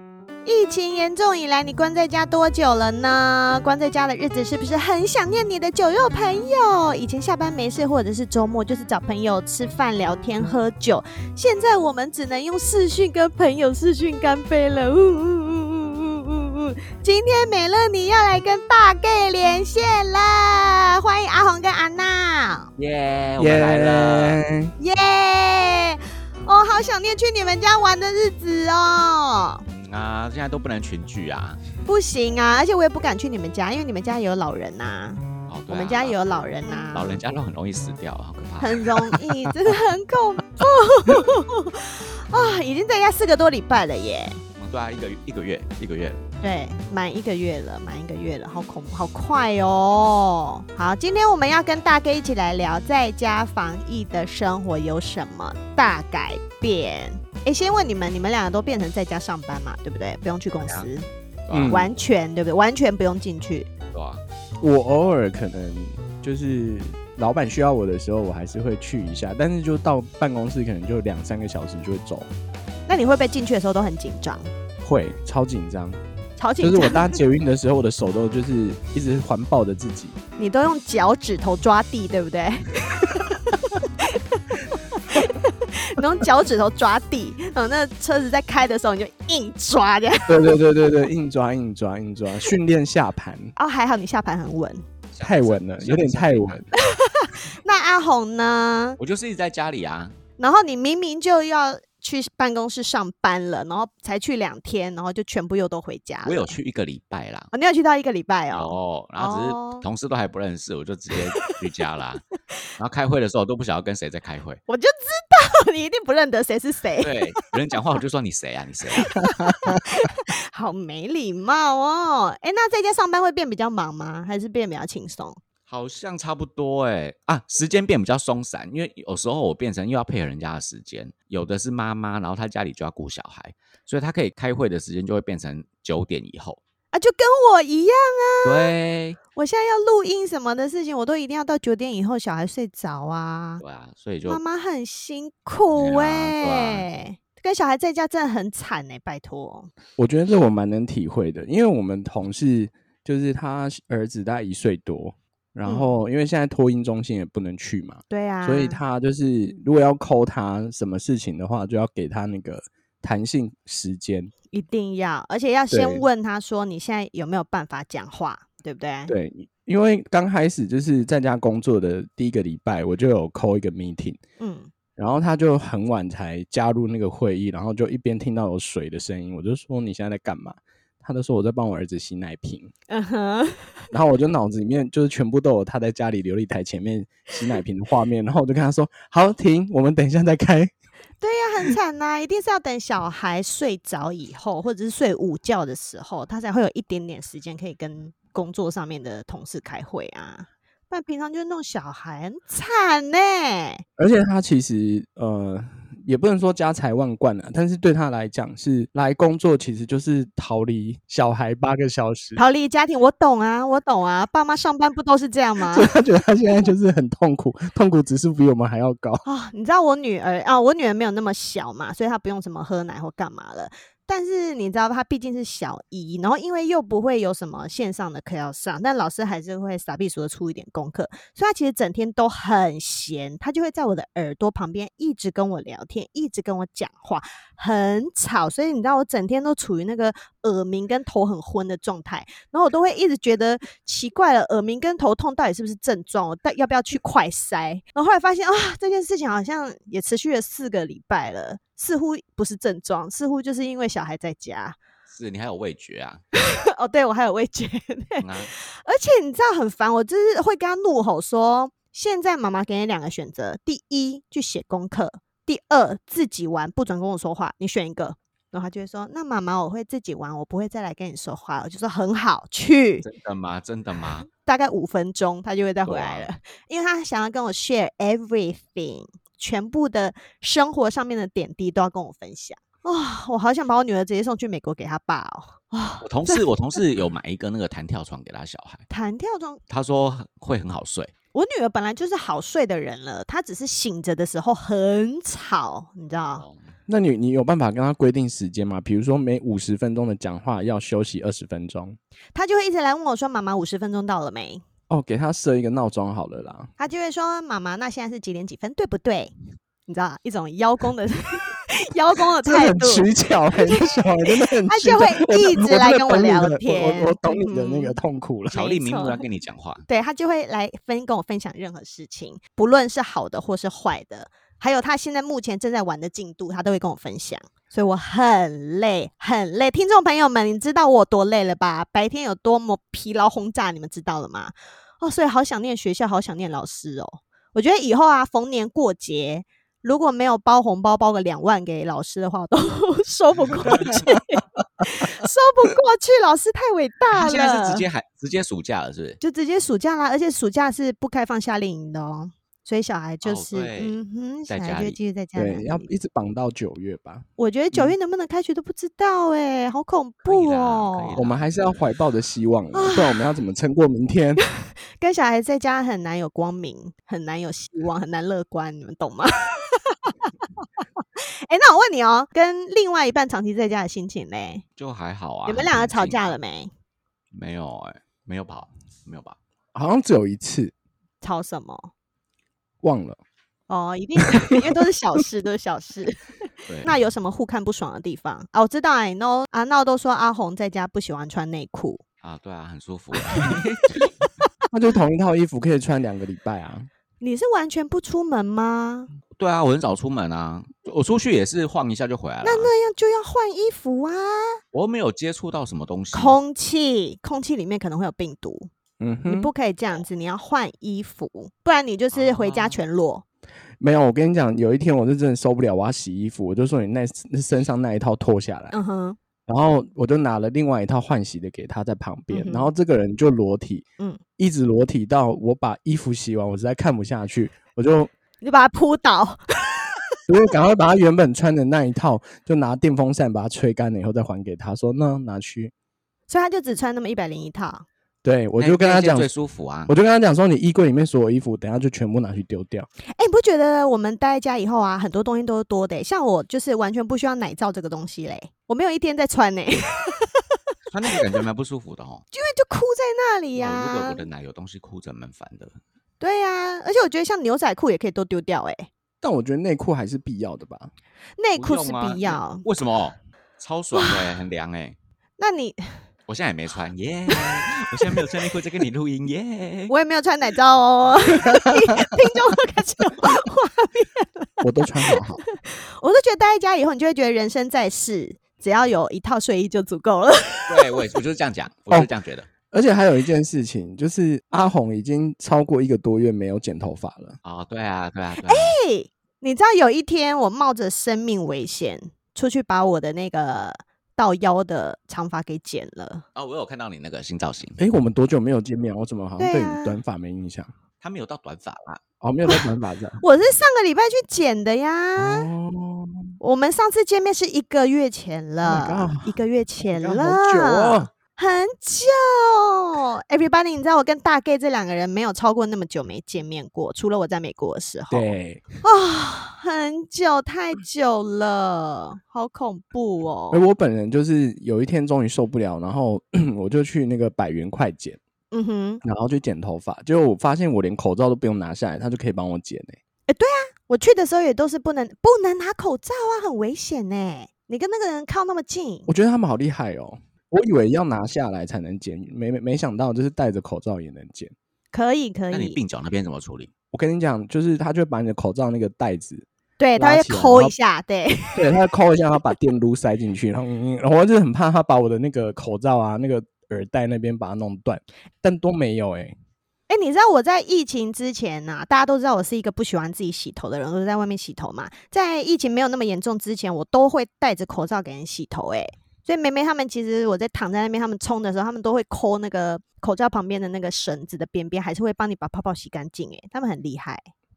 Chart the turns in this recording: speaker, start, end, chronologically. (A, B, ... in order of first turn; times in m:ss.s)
0:00.4-0:22.7 A
0:22.8-0:24.4 B
0:23.4-0:24.7 C
0:24.8-0:29.6 A
0:29.7-0:31.6 B
0:31.9-0:37.2 A
0:35.5-0:39.2 B
0:38.6-0:44.4 A
0:44.6-0:46.2 B
0:46.4-1:01.1 A
1:01.5-1:01.9 B
1:01.5-1:01.9 C
1:01.6-1:03.7 A
1:03.9-1:04.2 B
1:04.6-1:12.3 C
1:12.9-1:14.5 A
1:14.8-1:16.0 C
1:16.4-1:17.2 A
1:16.6-1:20.2 C
1:20.4-1:24.4 A
1:25.0-1:30.6 A
1:30.3-1:33.5 C
1:33.6-1:34.8 A
1:35.1-1:36.6 B
1:35.2-1:36.6 C
1:36.7-1:39.0 A
1:39.0-1:40.2 B
1:40.4-1:46.6 A
1:46.2-1:47.5 B
1:47.5-1:49.9 A
1:48.5-1:52.2 B
1:52.8-1:54.6 B
1:54.7-1:57.5 A
1:57.0-1:59.2 B
1:59.0-2:05.4 A
1:59.3-1:59.8 C
2:05.7-2:16.6 B
2:16.9-2:18.7 A
2:18.4-2:19.2 B
2:19.4-2:23.6 A
2:23.6-2:24.4 B
2:24.3-2:29.7 A
2:25.8-2:26.9 B
2:30.0-2:44.3 C
2:35.7-2:36.0 A
2:38.1-2:38.8 A
2:44.5-2:49.1 A
2:45.7-2:46.1 C
2:49.1-2:54.2 C
2:54.4-2:54.7 A
2:55.0-3:02.7 C
3:02.9-3:03.9 A
3:03.9-3:10.7 C
3:11.2-3:23.8 A
3:24.0-3:32.4 C
3:32.4-3:35.9 A
3:35.7-3:39.2 C
3:39.2-4:14.8 A
4:15.1-4:16.2 B
4:16.4-4:33.1 A
4:18.2-4:18.5 B
4:33.0-4:34.3 B
4:34.4-4:46.5 A
4:35.9-4:36.3 B
4:46.0-4:48.9 B
4:48.9-4:49.6 A
4:49.7-4:51.1 B
4:51.3-4:56.4 A
4:56.3-4:56.7 B
4:56.9-5:02.0 C
5:02.4-5:04.6 A
5:04.9-5:06.7 C
5:06.8-5:09.3 A
5:09.9-5:18.0 A
5:12.4-5:18.7 C
5:18.5-5:19.8 B
5:18.5-5:19.2 A
5:19.9-5:47.8 A
5:43.7-5:44.4 C
5:43.7-5:44.0 B
5:47.1-5:49.2 B
5:49.2-5:55.9 A
5:53.2-5:54.0 B
5:54.5-5:55.0 B
5:55.4-5:57.9 C
5:57.4-6:01.2 A
6:00.2-6:01.9 B
6:01.2-6:04.4 C
6:02.7-6:03.2 A
6:04.4-6:14.6 A
6:14.8-6:16.3 B
6:15.5-6:16.7 A
6:17.3-6:19.4 B
6:19.7-6:20.7 C
6:21.2-6:21.9 A
6:22.8-6:23.2 C
6:23.7-6:26.3 A
6:26.8-6:32.0 A
6:32.2-6:34.1 B
6:34.7-6:36.9 C
6:37.2-6:39.1 A
6:39.4-6:42.7 B
6:42.4-6:44.6 A
6:44.7-6:46.4 B
6:46.1-6:48.7 A
6:49.0-6:49.5 C
6:49.3-6:53.2 A
6:52.1-6:52.8 B
6:53.8-6:58.8 C
6:58.7-6:59.2 A
6:59.5-7:03.8 C
7:02.3-7:02.7 A
7:04.4-7:08.1 C
7:08.4-7:09.9 A
7:10.3-7:15.7 C
7:16.3-7:17.9 A
7:18.2-7:19.3 C
7:18.6-7:19.9 B
7:19.9-7:22.9 C
7:23.2-7:30.4 A
7:30.9-7:32.2 B
7:32.3-7:34.3 A
7:33.6-7:35.8 B
7:36.2-7:38.9 A
7:39.2-7:40.9 C
7:41.4-7:42.6 A
7:41.6-7:45.0 B
7:43.9-7:44.4 A
7:45.4-7:46.0 A
7:46.3-7:49.9 B
7:47.3-7:48.2 A
7:49.9-8:01.0 A
7:51.5-7:52.1 C
7:54.6-7:55.4 C
8:00.7-8:02.5 B
8:02.7-8:07.4 C
8:07.4-8:08.8 B
8:08.5-8:16.2 A
8:16.4-8:17.8 B
8:17.8-8:20.7 C
8:19.4-8:20.0 A
8:21.0-8:22.0 B
8:22.2-8:23.2 C
8:23.2-8:25.5 A
8:25.2-8:26.3 C
8:26.4-8:43.6 A
8:28.6-8:31.1 C
8:38.1-8:38.6 C
8:43.5-8:48.2 C
8:48.5-8:49.0 A
8:49.0-8:53.0 C
8:53.3-8:59.1 A
8:59.1-9:04.5 C
9:04.9-9:05.8 A
9:05.5-9:06.7 B
9:06.9-9:10.7 C
9:09.8-9:11.7 A
9:11.6-9:19.4 C
9:19.9-9:37.3 A